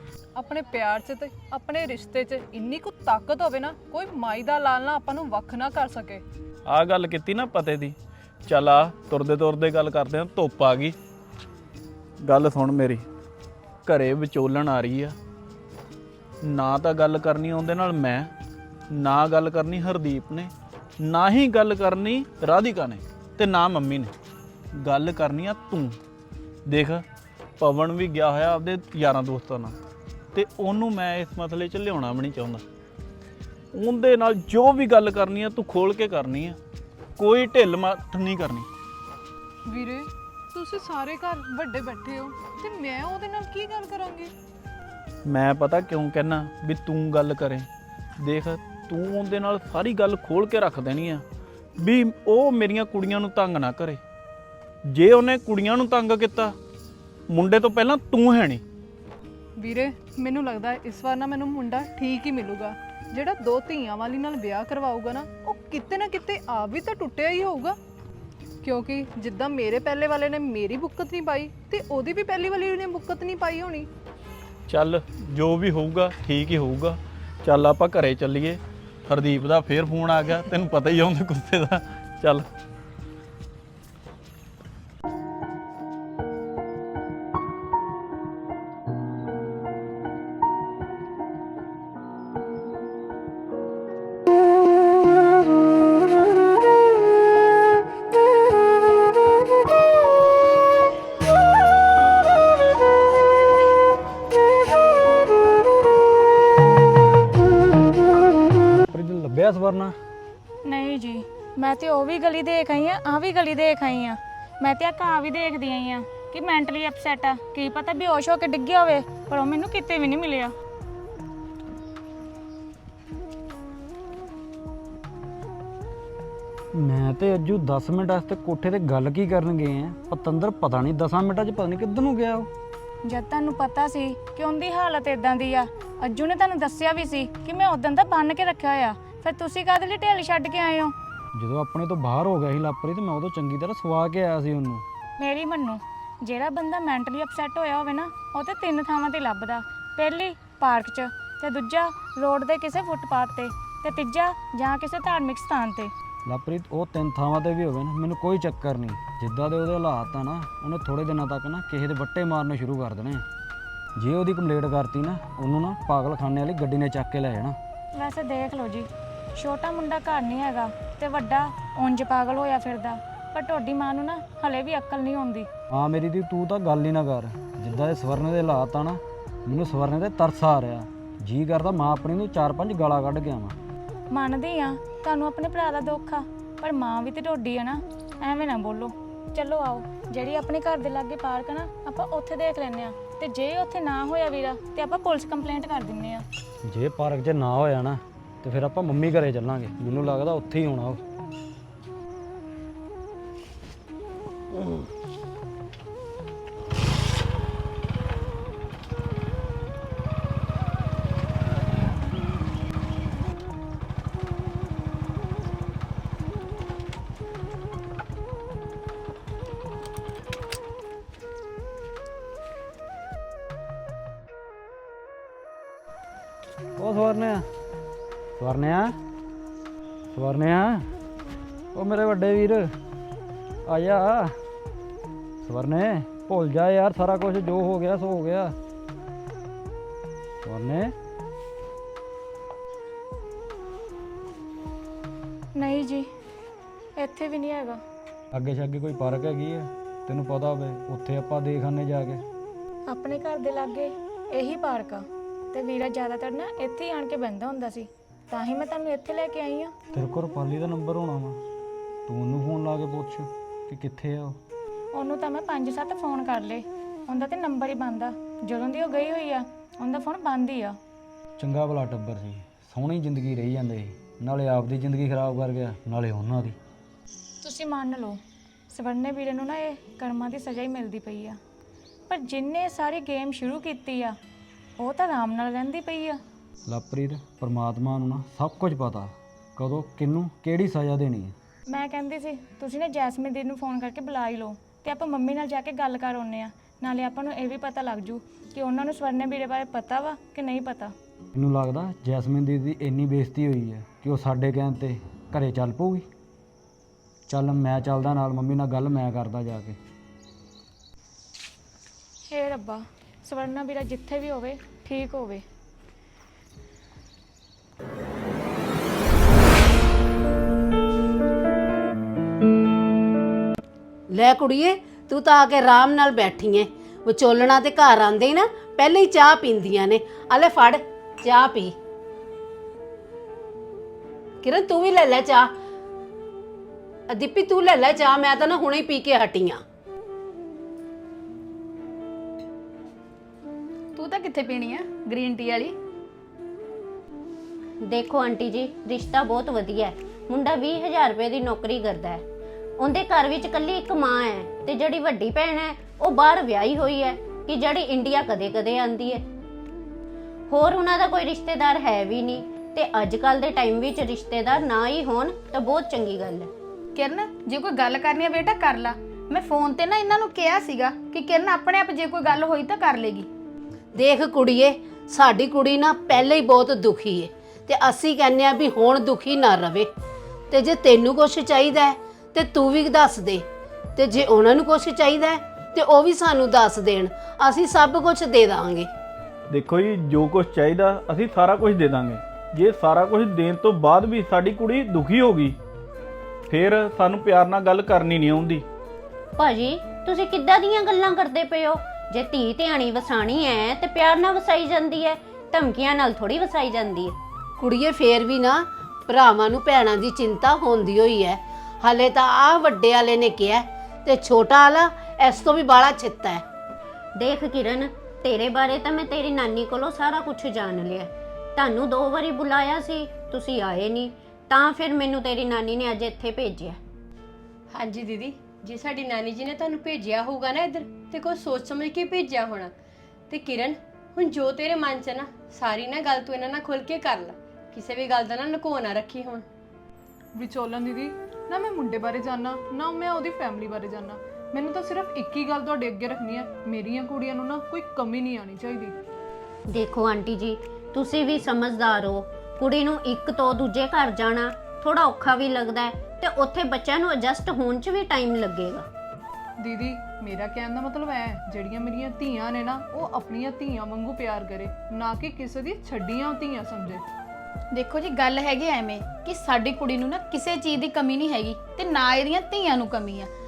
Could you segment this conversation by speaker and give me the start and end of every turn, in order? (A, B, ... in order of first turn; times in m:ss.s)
0:00.4-0:06.2 A
0:06.7-0:10.9 B
0:12.2-0:13.0 B
0:13.8-0:15.2 B
0:16.4-0:18.3 B
0:18.9-0:24.1 B
0:24.7-0:26.0 B
0:26.6-0:27.0 B
0:27.6-0:29.8 B
0:30.3-0:32.6 B
0:33.7-0:36.6 B
0:37.2-0:38.7 B
0:39.7-0:44.3 A
0:45.2-0:47.7 B
0:48.2-0:51.2 B
0:51.8-0:54.0 B
0:54.9-0:56.5 B
0:57.3-0:58.6 B
0:59.6-1:07.8 A
1:08.6-1:13.9 A
1:14.7-1:22.4 B
1:48.7-1:50.0 C
1:50.6-2:00.5 D
2:06.7-2:12.5 C
2:13.0-2:20.9 D
2:21.3-2:24.8 C
2:25.2-2:35.9 D
2:36.2-2:43.2 C
2:44.0-2:47.6 C
2:47.9-2:55.5 D
2:55.7-3:03.6 C
3:04.1-3:16.2 D
3:16.6-3:21.0 C
3:46.8-3:47.4 C
3:48.4-3:49.0 C
3:50.1-3:50.9 C
3:51.7-3:52.7 C
3:53.6-3:54.3 C
3:55.4-3:58.6 C
4:00.4-4:00.9 C
4:05.5-4:06.1 D
4:07.0-4:07.8 D
4:08.3-4:12.2 C
4:12.9-4:19.7 D
4:19.9-4:21.4 C
4:22.0-4:24.4 C
4:24.9-4:30.8 D
4:31.4-4:36.6 C
4:37.4-4:41.4 D
4:42.1-4:44.2 D
4:44.8-4:46.2 D
4:46.6-4:51.3 C
4:51.7-5:00.9 D
5:01.3-5:06.1 C
5:07.3-5:09.8 C
5:12.3-5:15.4 D
5:24.1-5:31.7 E
5:34.4-5:35.5 E
5:37.1-5:39.6 E
5:44.0-5:45.7 F
5:47.8-5:52.2 G
5:52.8-5:59.2 G
6:00.5-6:06.5 G
6:06.9-6:13.3 F
6:13.9-6:19.9 E
6:20.5-6:23.4 E
6:24.0-6:28.9 E
6:29.5-6:35.6 B
6:36.5-6:38.6 B
6:39.4-6:47.2 G
6:47.6-6:56.4 E
6:57.2-7:06.8 G
7:07.7-7:12.7 H
7:13.3-7:19.4 H
7:20.4-7:28.9 A
7:29.7-7:38.9 G
7:39.6-7:47.0 A
7:47.7-7:53.3 F